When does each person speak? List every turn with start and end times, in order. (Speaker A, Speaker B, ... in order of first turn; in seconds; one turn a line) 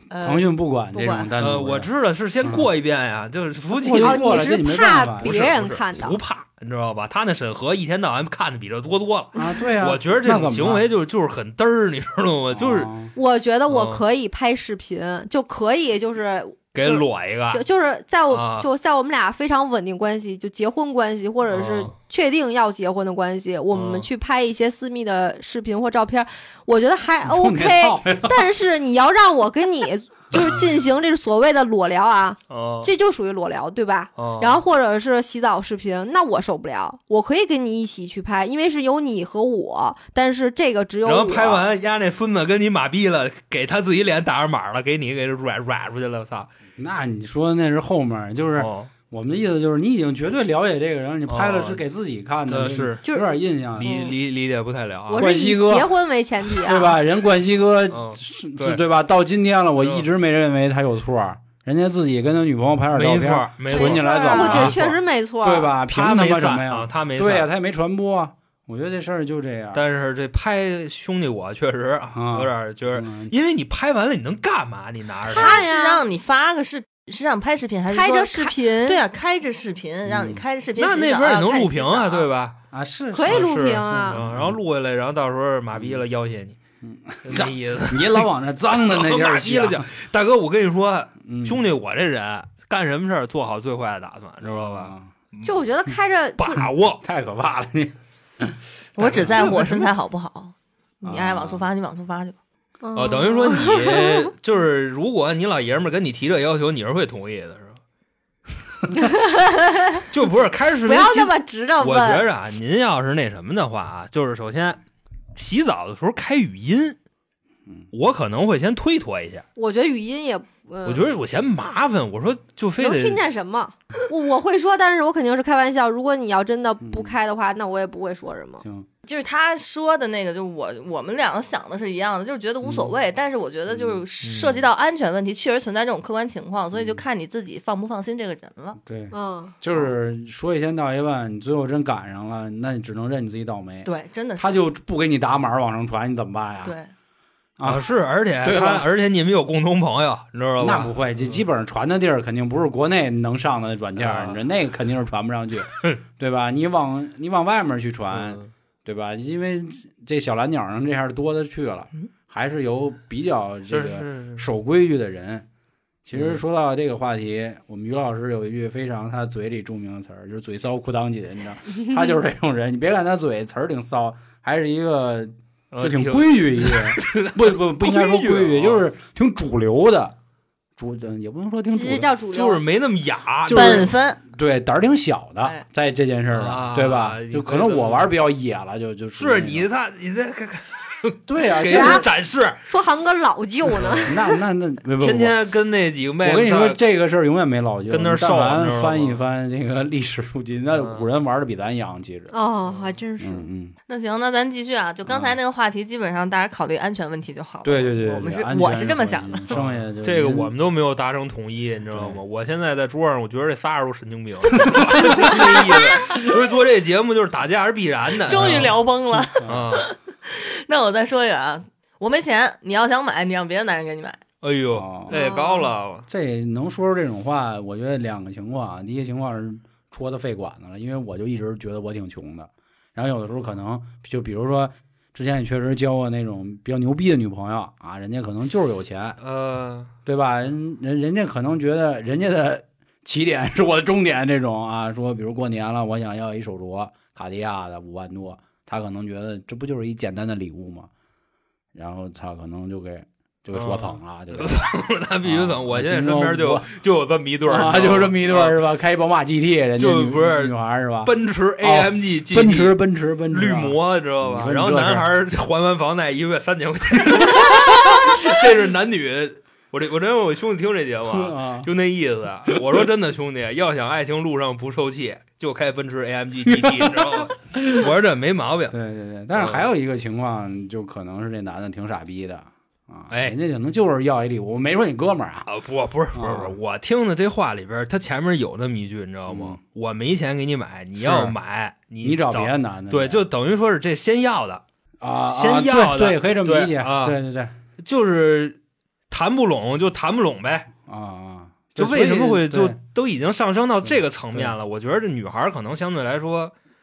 Speaker A: 0.1-1.3
Speaker B: 0.2-1.9
Speaker C: 1.4-4.3
Speaker B: 2.4-2.7
Speaker B: 3.8-5.5
Speaker A: 3.9-6.2
Speaker C: 5.2-12.9
Speaker B: 9.3-10.8
Speaker B: 12.5-13.1
Speaker A: 13.1-41.6
Speaker C: 13.7-14.0
Speaker C: 16.7-17.6
Speaker C: 18.3-18.7
Speaker C: 21.5-21.9
Speaker C: 23.7-24.1
Speaker B: 27.2-28.4
Speaker C: 32.5-32.9
Speaker C: 34.1-34.6
Speaker C: 41.0-46.5
Speaker B: 46.8-54.0
Speaker C: 48.6-48.9
Speaker C: 51.3-51.8
Speaker C: 52.5-53.0
Speaker A: 53.0-53.4
Speaker C: 53.8-55.2
Speaker D: 53.8-54.1
Speaker A: 55.1-57.0
Speaker B: 55.1-55.9
Speaker B: 56.5-69.8
Speaker C: 57.9-58.8
Speaker C: 59.8-60.0
Speaker C: 62.9-65.0
Speaker D: 63.7-64.7
Speaker A: 63.7-65.7
Speaker C: 65.9-67.5
Speaker C: 69.7-75.7
Speaker B: 72.1-73.3
Speaker D: 75.3-82.3
Speaker A: 75.3-76.0
Speaker A: 77.9-79.0
Speaker B: 80.0-80.4
Speaker C: 80.7-82.5
Speaker B: 82.7-84.6
Speaker A: 83.1-84.2
Speaker C: 83.2-86.6
Speaker B: 85.7-86.0
Speaker B: 86.8-89.9
Speaker C: 87.2-95.6
Speaker B: 91.2-91.6
Speaker B: 94.4-95.1
Speaker A: 95.4-96.7
Speaker C: 96.4-97.0
Speaker B: 97.0-99.7
Speaker D: 99.0-102.4
Speaker C: 99.0-99.8
Speaker B: 101.0-101.7
Speaker A: 102.8-104.2
Speaker C: 102.9-107.8
Speaker A: 108.9-110.0
Speaker C: 110.1-114.8
Speaker A: 110.8-112.2
Speaker C: 115.3-117.0
Speaker C: 117.9-119.4
Speaker A: 119.5-121.1
Speaker C: 120.8-123.2
Speaker A: 122.8-128.6
Speaker B: 126.8-127.2
Speaker B: 128.6-128.9
Speaker D: 129.0-138.8
Speaker B: 132.6-132.9
Speaker B: 133.7-134.0
Speaker C: 134.2-134.7
Speaker B: 136.7-137.0
Speaker B: 138.8-146.8
Speaker A: 139.1-139.6
Speaker D: 143.8-144.6
Speaker D: 146.6-146.9
Speaker B: 147.6-147.9
Speaker C: 147.6-151.4
Speaker B: 148.4-148.9
Speaker B: 150.6-165.4
Speaker C: 154.0-154.4
Speaker C: 155.7-156.0
Speaker C: 158.1-158.5
Speaker C: 163.7-164.5
Speaker B: 166.1-180.1
Speaker C: 166.1-166.4
Speaker C: 175.7-178.8
Speaker B: 180.8-182.1
Speaker A: 181.7-182.6
Speaker C: 182.3-183.9
Speaker B: 183.5-189.7
Speaker D: 183.5-184.2
Speaker C: 186.3-188.1
Speaker C: 189.2-192.6
Speaker B: 191.3-192.1
Speaker A: 191.6-192.1
Speaker A: 192.6-194.3
Speaker C: 193.8-194.0
Speaker B: 194.0-195.3
Speaker C: 195.0-196.8
Speaker B: 196.2-202.3
Speaker C: 197.9-199.2
Speaker C: 200.7-201.1
Speaker A: 202.3-203.5
Speaker B: 203.2-203.7
Speaker D: 203.9-209.5
Speaker B: 205.1-205.4
Speaker B: 207.6-210.5
Speaker C: 209.5-218.8
Speaker B: 211.9-212.2
Speaker B: 214.6-215.7
Speaker D: 215.1-216.3
Speaker D: 218.2-224.2
Speaker B: 218.3-218.7
Speaker B: 219.4-219.7
Speaker C: 219.4-219.9
Speaker C: 224.4-226.1
Speaker B: 224.7-225.1
Speaker A: 225.1-225.7
Speaker B: 226.1-239.2
Speaker C: 239.2-239.9
Speaker B: 240.1-250.9
Speaker B: 251.7-254.7
Speaker C: 253.5-258.6
Speaker B: 255.2-256.7
Speaker B: 257.4-265.1
Speaker C: 259.8-262.7
Speaker C: 263.3-278.7
Speaker B: 271.1-271.7
Speaker B: 276.4-277.9
Speaker B: 278.7-285.5
Speaker C: 279.3-279.6
Speaker C: 283.1-283.4
Speaker C: 285.4-294.6
Speaker B: 286.1-286.6
Speaker B: 289.3-289.6
Speaker B: 291.0-291.4
Speaker B: 292.0-293.2
Speaker B: 295.0-297.5
Speaker C: 295.3-297.2
Speaker C: 297.8-298.6
Speaker C: 299.1-300.7
Speaker B: 300.8-302.8
Speaker C: 301.8-306.5
Speaker B: 303.8-304.6